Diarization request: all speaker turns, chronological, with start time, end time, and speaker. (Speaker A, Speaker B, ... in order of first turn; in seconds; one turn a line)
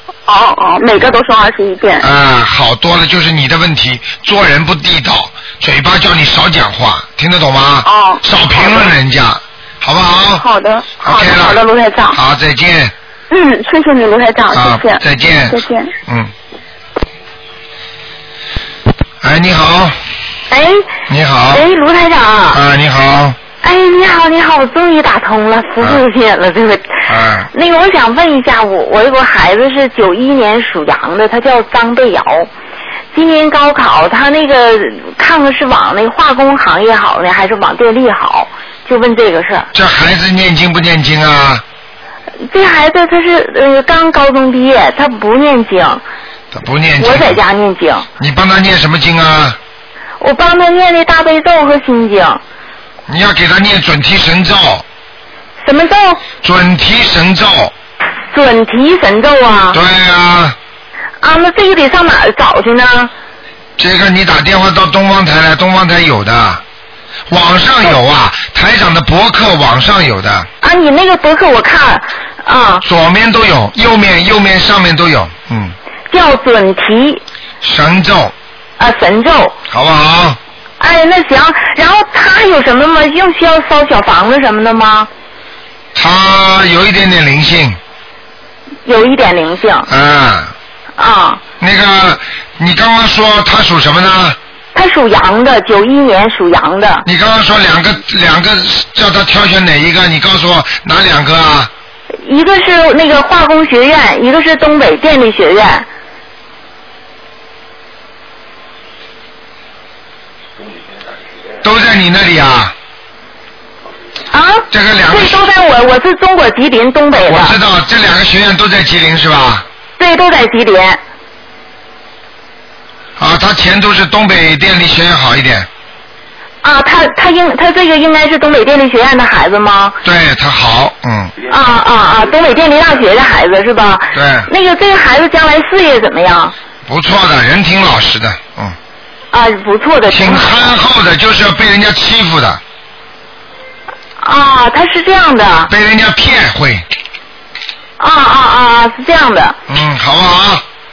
Speaker A: 0.2-2.1
Speaker B: 2.0-10.4
Speaker A: 7.8-8.9
Speaker A: 10.4-12.2
Speaker B: 11.0-12.9
Speaker A: 13.3-15.9
Speaker B: 14.5-16.3
Speaker B: 19.2-19.9
Speaker C: 20.5-20.8
Speaker B: 21.1-21.6
Speaker C: 21.5-22.6
Speaker B: 22.5-23.4
Speaker C: 23.6-32.5
Speaker B: 27.1-27.5
Speaker C: 33.1-39.7
Speaker B: 39.7-41.6
Speaker C: 42.5-46.0
Speaker B: 46.5-47.4
Speaker C: 47.0-48.0
Speaker B: 48.2-49.6
Speaker C: 50.2-52.4
Speaker B: 53.1-54.8
Speaker C: 55.6-56.2
Speaker B: 56.4-57.7
Speaker C: 58.3-59.8
Speaker B: 59.7-60.5
Speaker C: 61.2-63.1
Speaker B: 63.8-66.6
Speaker B: 67.3-70.5
Speaker C: 70.6-72.8
Speaker B: 72.8-75.7
Speaker C: 76.1-77.2
Speaker B: 77.6-78.3
Speaker C: 78.8-79.5
Speaker B: 79.7-80.4
Speaker C: 80.8-85.1
Speaker B: 85.9-87.8
Speaker C: 88.8-89.9
Speaker B: 89.9-90.5
Speaker C: 91.0-91.4
Speaker B: 91.6-94.4
Speaker C: 94.7-97.0
Speaker B: 97.0-101.7
Speaker C: 102.2-105.8
Speaker B: 111.6-112.7
Speaker C: 114.3-117.5
Speaker B: 114.7-115.4
Speaker B: 117.2-119.6
Speaker C: 120.0-121.0
Speaker B: 123.2-125.7
Speaker C: 126.6-129.9
Speaker B: 130.0-131.3
Speaker C: 131.5-136.5
Speaker B: 134.1-134.5
Speaker B: 136.8-138.8
Speaker C: 139.3-140.7
Speaker B: 140.1-142.6
Speaker C: 144.2-145.7
Speaker B: 145.7-146.8
Speaker C: 148.0-149.6
Speaker B: 149.7-150.6